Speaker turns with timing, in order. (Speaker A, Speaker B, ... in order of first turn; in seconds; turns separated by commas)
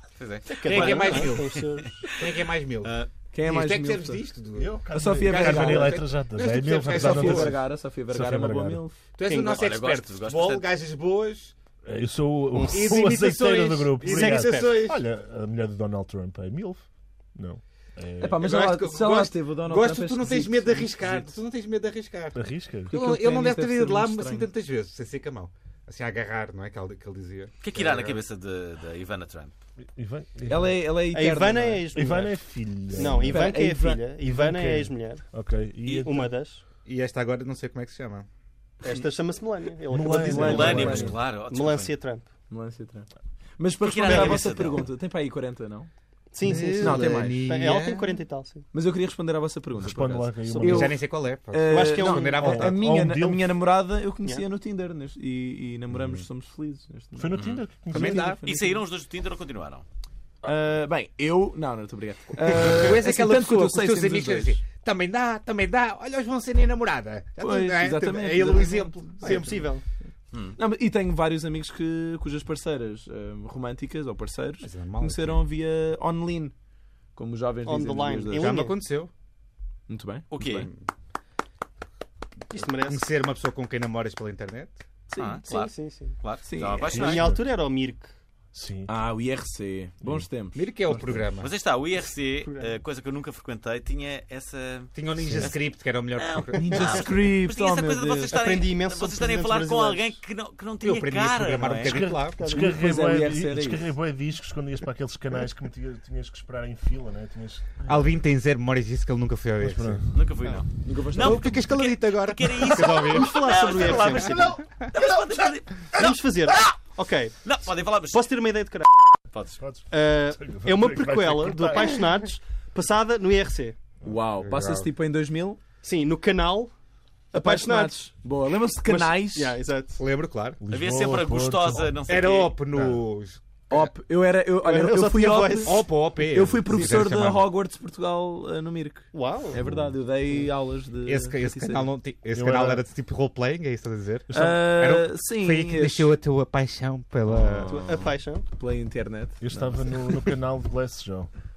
Speaker A: 0.2-2.2, Speaker B: 0.5-2.1, Speaker C: 0.6-7.6, Speaker A: 2.8-3.1, Speaker D: 3.3-4.2, Speaker E: 4.5-8.8, Speaker D: 4.9-6.0, Speaker D: 6.9-9.0, Speaker C: 9.2-11.6, Speaker B: 9.3-9.6, Speaker A: 9.5-10.7, Speaker E: 11.8-18.4, Speaker B: 12.6-12.9, Speaker C: 12.7-15.0, Speaker B: 14.0-14.9, Speaker D: 18.2-21.4, Speaker C: 18.4-28.2, Speaker E: 22.4-22.9, Speaker D: 22.9-24.5, Speaker A: 27.6-29.5, Speaker E: 29.9-30.8, Speaker D: 30.5-31.9, Speaker B: 31.1-32.4, Speaker E: 31.9-33.6, Speaker B: 32.9-35.3, Speaker D: 33.0-34.0, Speaker E: 34.2-36.3, Speaker B: 35.8-36.6, Speaker C: 36.9-38.3, Speaker B: 38.8-42.2, Speaker E: 39.9-41.2, Speaker D: 40.0-41.1, Speaker A: 40.4-41.9, Speaker D: 42.5-45.9, Speaker A: 43.8-44.8, Speaker B: 44.0-44.5, Speaker B: 46.3-48.6, Speaker C: 46.4-48.2, Speaker D: 46.8-47.4, Speaker D: 48.7-57.4, Speaker E: 49.8-51.0, Speaker B: 50.5-50.8, Speaker C: 50.6-52.8, Speaker B: 51.7-52.6, Speaker E: 52.4-53.5, Speaker C: 55.9-56.2, Speaker E: 57.1-58.4, Speaker A: 57.3-57.6, Speaker D: 57.9-58.8, Speaker C: 57.9-58.4, Speaker A: 58.4-59.9, Speaker D: 60.4-64.6, Speaker C: 62.5-69.7, Speaker D: 67.4-69.5, Speaker B: 69.2-69.8, Speaker D: 70.6-76.5, Speaker C: 74.6-75.4, Speaker D: 77.2-78.6, Speaker B: 77.6-78.8, Speaker C: 78.3-79.1, Speaker D: 79.9-80.6, Speaker A: 80.3-80.7, Speaker C: 80.4-80.8, Speaker B: 82.5-83.1, Speaker C: 82.6-84.8, Speaker D: 85.1-85.5, Speaker A: 85.1-87.3, Speaker B: 85.5-86.2, Speaker D: 86.4-87.1, Speaker E: 86.9-87.4, Speaker B: 86.9-88.1, Speaker E: 88.5-88.9, Speaker D: 88.9-91.2, Speaker C: 90.5-91.5, Speaker A: 91.4-95.6, Speaker B: 92.4-92.7, Speaker C: 94.9-97.1, Speaker E: 95.2-95.5, Speaker A: 96.2-102.0, Speaker D: 96.6-98.4, Speaker B: 98.3-100.2, Speaker C: 100.8-102.5, Speaker E: 101.8-107.7, Speaker B: 102.3-102.7, Speaker D: 102.5-103.9, Speaker C: 107.9-114.9, Speaker E: 109.6-110.2, Speaker A: 110.1-116.8, Speaker D: 110.7-111.5, Speaker B: 112.8-114.5, Speaker E: 114.1-115.4, Speaker B: 115.9-117.5, Speaker A: 117.4-118.3, Speaker B: 118.0-119.1, Speaker A: 119.3-119.6, Speaker E: 119.6-122.0, Speaker B: 119.9-123.8, Speaker D: 124.0-125.6, Speaker C: 124.4-124.9, Speaker B: 125.8-126.7, Speaker B: 127.3-128.1, Speaker D: 127.3-129.6, Speaker B: 128.8-130.0, Speaker C: 130.0-130.6, Speaker E: 130.6-132.0, Speaker A: 130.7-132.6, Speaker C: 132.1-133.9, Speaker E: 132.7-133.0, Speaker D: 133.7-141.9, Speaker B: 134.6-135.8, Speaker C: 135.6-137.5, Speaker B: 139.1-139.6, Speaker C: 141.1-147.7, Speaker E: 142.3-142.8, Speaker D: 144.3-146.1, Speaker D: 147.3-150.3, Speaker B: 147.7-148.4, Speaker E: 149.4-151.3